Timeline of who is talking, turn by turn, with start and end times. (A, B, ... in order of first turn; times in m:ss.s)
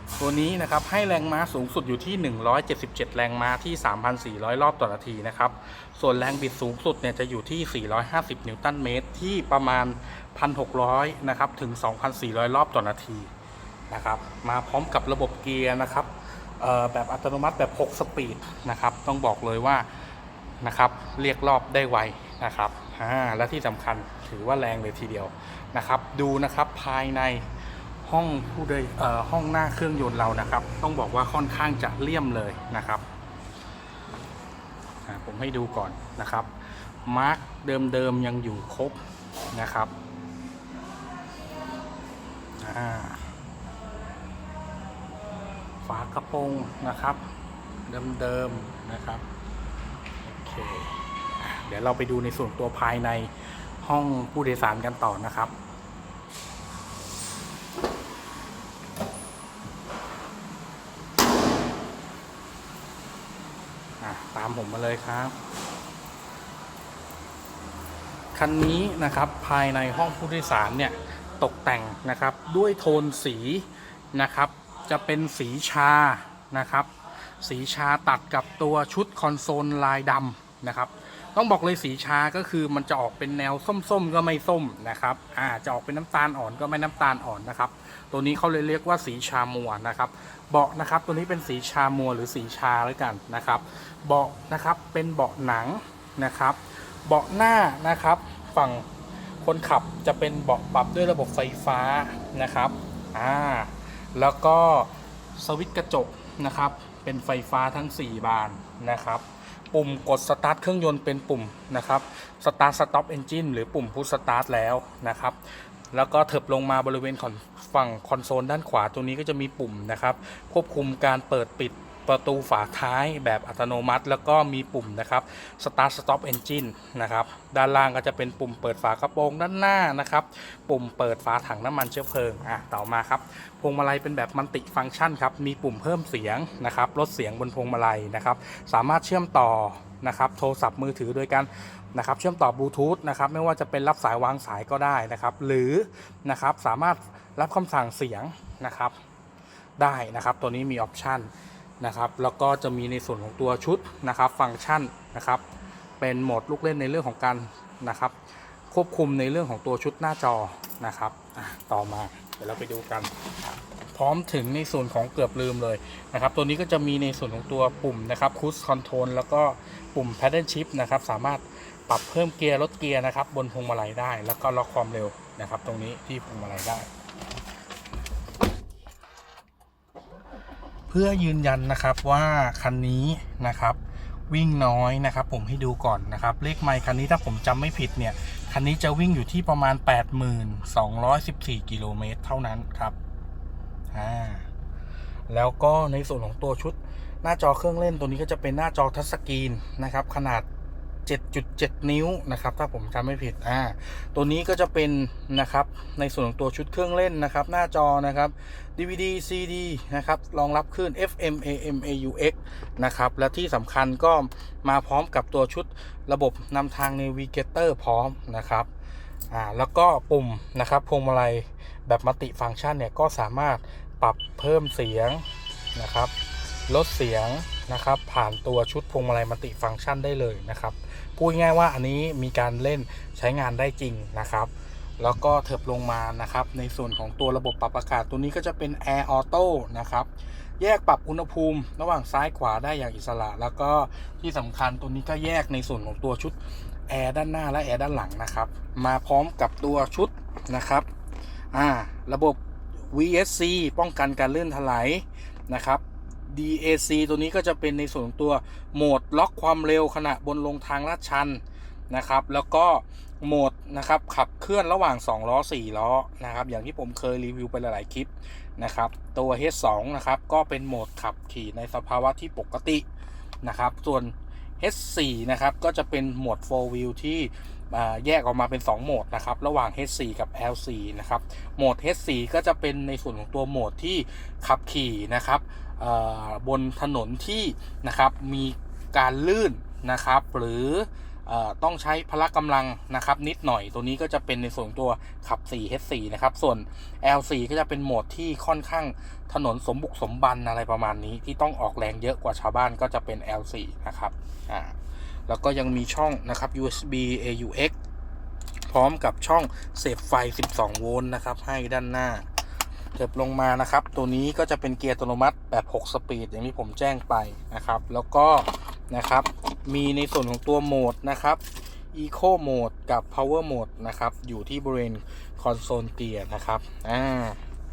0:00.2-0:13.3 A
0:13.9-0:20.1 A
0:20.6-0:33.0 A
0:35.1-0:39.0 A
0:39.5-0:39.9 A
0:42.6-0:43.3 A
0:45.8-0:47.3 A
0:47.9-0:49.2 A
0:50.2-0:55.5 A
1:04.0-1:05.4 A
1:08.4-1:38.9 A
1:39.4-2:29.0 A
2:29.8-2:35.4 A
2:36.0-2:43.1 A
2:43.9-2:56.9 A
3:00.9-3:03.8 A
3:04.3-3:13.0 A
3:13.9-3:14.5 A
3:15.3-3:20.5 A
3:21.1-3:38.7 A
3:39.3-3:46.1 A
3:46.7-4:10.9 A
4:11.5-4:12.4 A
4:12.9-4:32.9 A
4:33.4-5:04.8 A
5:05.3-5:07.7 A
5:08.7-5:12.3 A
5:13.0-5:21.4 A
5:21.9-5:27.4 A